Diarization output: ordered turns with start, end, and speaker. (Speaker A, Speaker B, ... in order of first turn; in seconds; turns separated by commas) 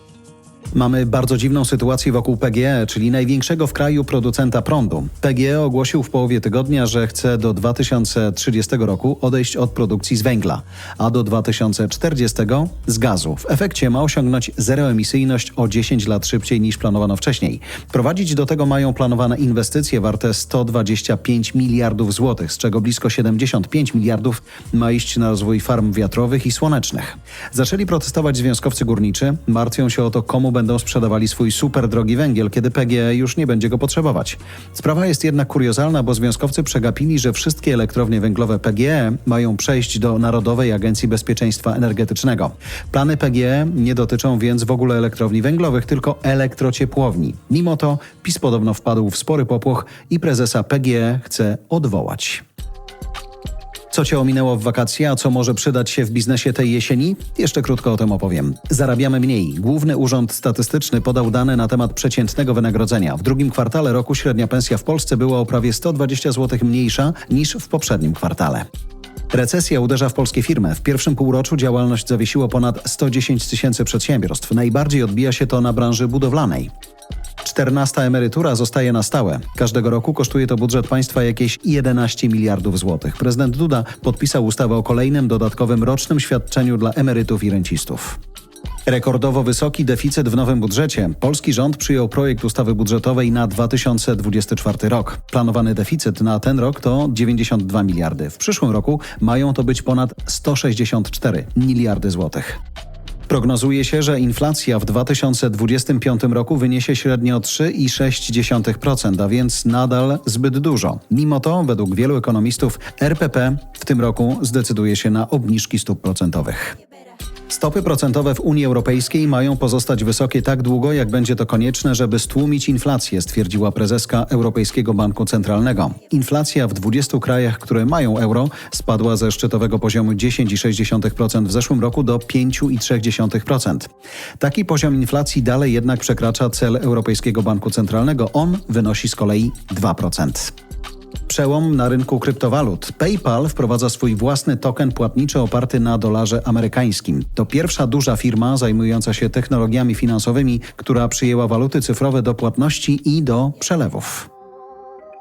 Speaker A: 0.7-52.4, Speaker A: 53.9-68.7, Speaker A: 69.3-76.7, Speaker A: 77.4-88.2, Speaker A: 88.8-102.6, Speaker A: 103.3-116.8, Speaker A: 117.5-140.5, Speaker A: 141.3-154.3